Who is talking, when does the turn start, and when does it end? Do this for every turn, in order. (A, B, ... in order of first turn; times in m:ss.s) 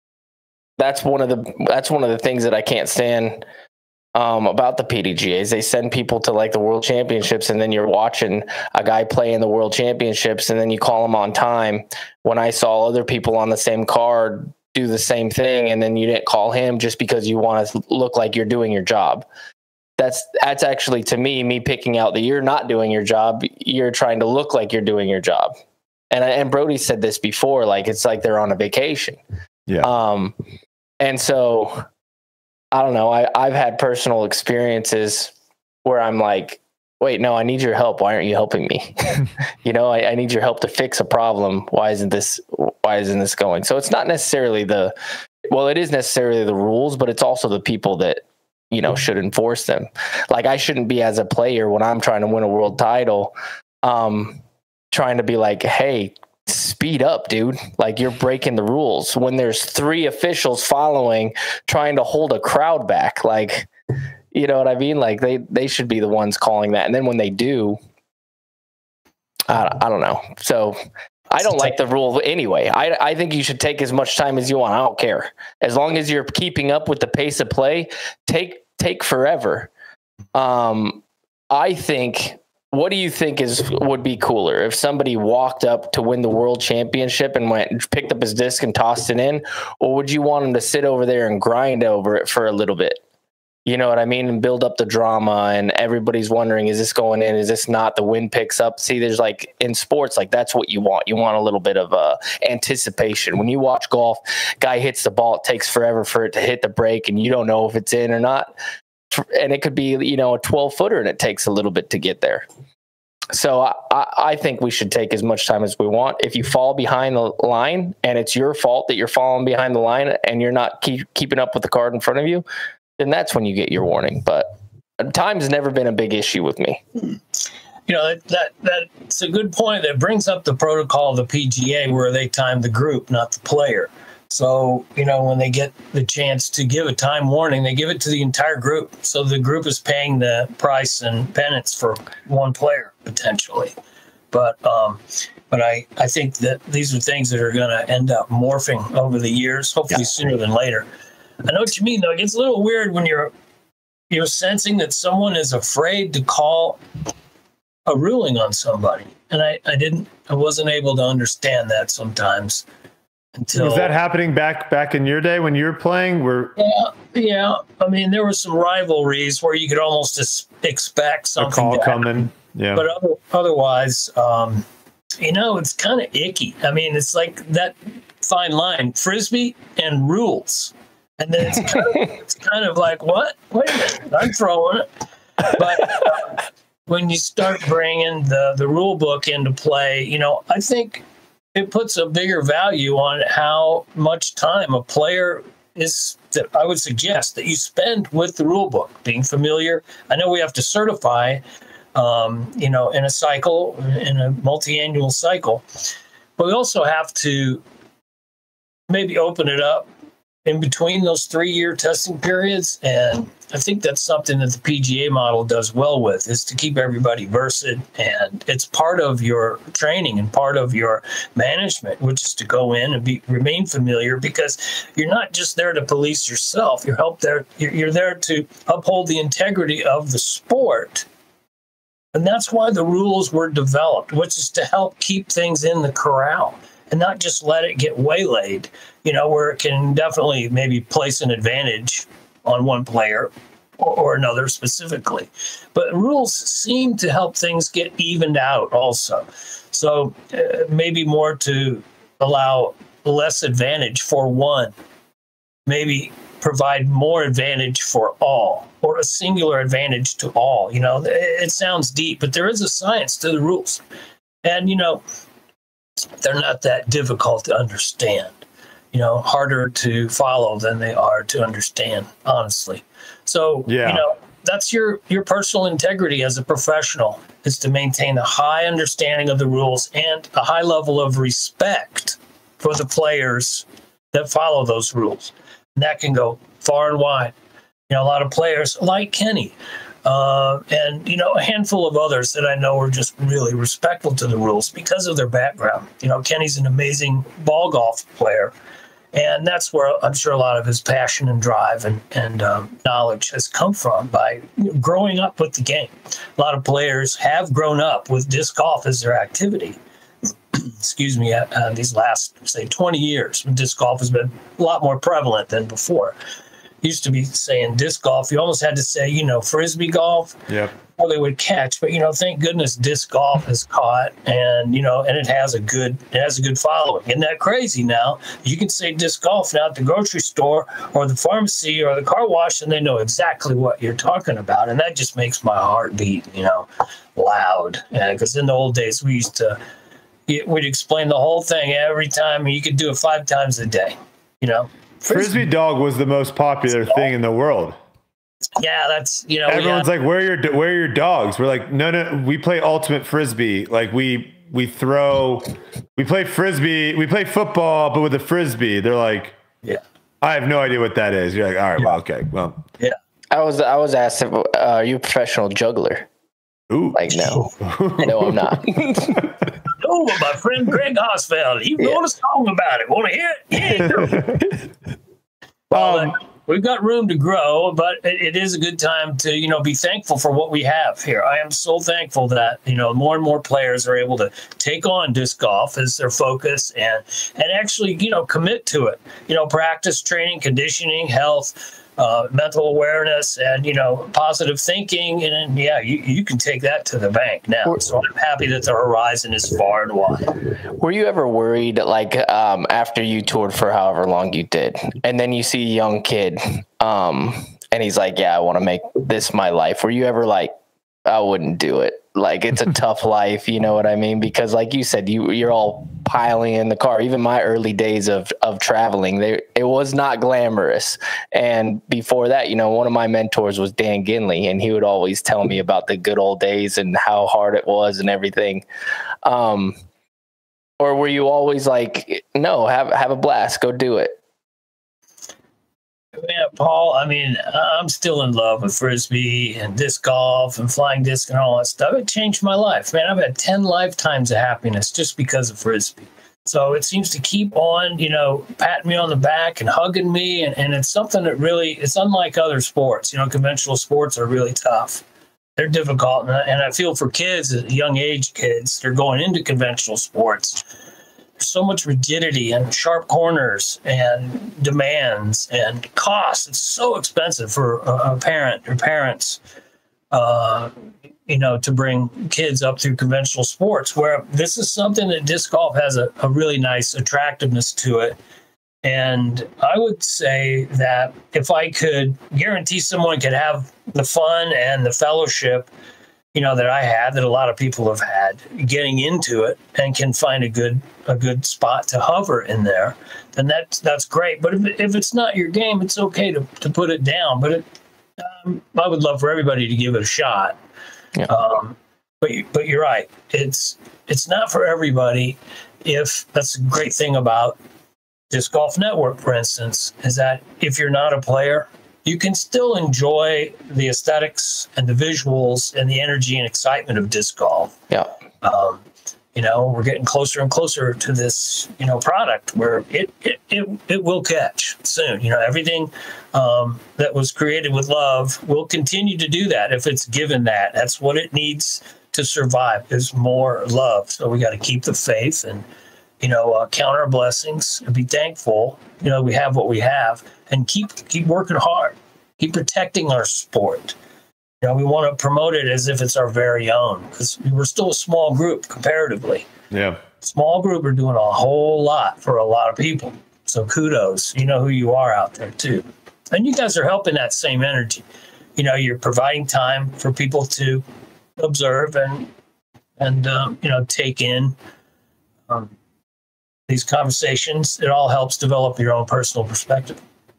0:00.8-0:03.4 A
0:04.2-0:19.3 A
0:20.0-0:25.5 A
0:26.1-0:29.2 A
0:29.8-0:30.4 A
0:31.0-0:31.8 A
0:32.7-0:35.3 A
0:35.8-0:44.9 A
0:45.5-0:53.3 A
0:53.8-0:54.4 A
0:54.9-1:03.7 A
1:04.3-1:07.8 A
1:09.5-1:10.8 A
1:11.3-1:19.7 A
1:20.3-1:33.0 A
1:33.7-1:48.5 A
1:49.1-1:52.5 A
1:53.3-2:02.4 A
2:03.0-2:06.8 A
2:07.9-2:23.7 B
2:24.3-2:30.9 B
2:31.4-2:33.3 B
2:34.1-2:36.8 B
2:37.9-2:42.7 B
2:43.4-2:43.9 B
2:43.6-2:46.6 C
2:46.6-2:54.6 B
2:51.4-2:52.8 C
2:55.2-3:04.9 B
3:05.4-3:11.0 B
3:11.6-3:21.4 B
3:22.0-3:27.6 B
3:28.9-3:29.9 B
3:30.4-3:51.1 B
3:52.1-4:14.7 B
4:15.7-4:23.8 B
4:24.4-4:25.0 B
4:26.2-4:28.4 B
4:28.9-4:47.3 B
4:33.7-4:34.0 C
4:47.9-4:58.5 B
4:59.1-5:09.8 B
5:10.5-5:16.2 B
5:16.8-5:39.6 B
5:20.5-5:20.7 C
5:40.3-5:45.4 B
5:45.1-5:47.8 C
5:48.6-5:49.9 B
5:49.5-5:59.4 C
6:00.2-6:02.6 C
6:03.3-6:06.1 A
6:06.7-6:07.0 C
6:06.9-6:09.3 A
6:07.6-6:08.3 C
6:09.8-6:14.3 B
6:13.8-6:14.4 C
6:15.7-6:40.4 B
6:15.7-6:16.2 C
6:40.8-6:50.5 A
6:51.1-7:08.6 A
7:09.2-7:09.8 A
7:10.8-7:14.2 A
7:16.2-7:35.0 B
7:35.6-7:40.6 B
7:41.4-7:49.4 B
7:50.1-7:50.7 B
7:51.3-7:58.2 B
7:58.8-8:05.7 B
8:06.3-8:17.7 B
8:18.2-8:20.6 B
8:21.3-8:27.6 B
8:28.3-8:37.7 B
8:38.4-8:38.8 B
8:39.4-8:55.6 B
8:56.2-9:04.0 B
9:04.6-9:09.5 B
9:09.7-9:10.0 C
9:10.2-9:18.0 B
9:18.6-9:20.8 B
9:21.4-9:22.3 B
9:23.0-9:24.6 B
9:25.5-9:25.7 B
9:26.7-9:30.0 B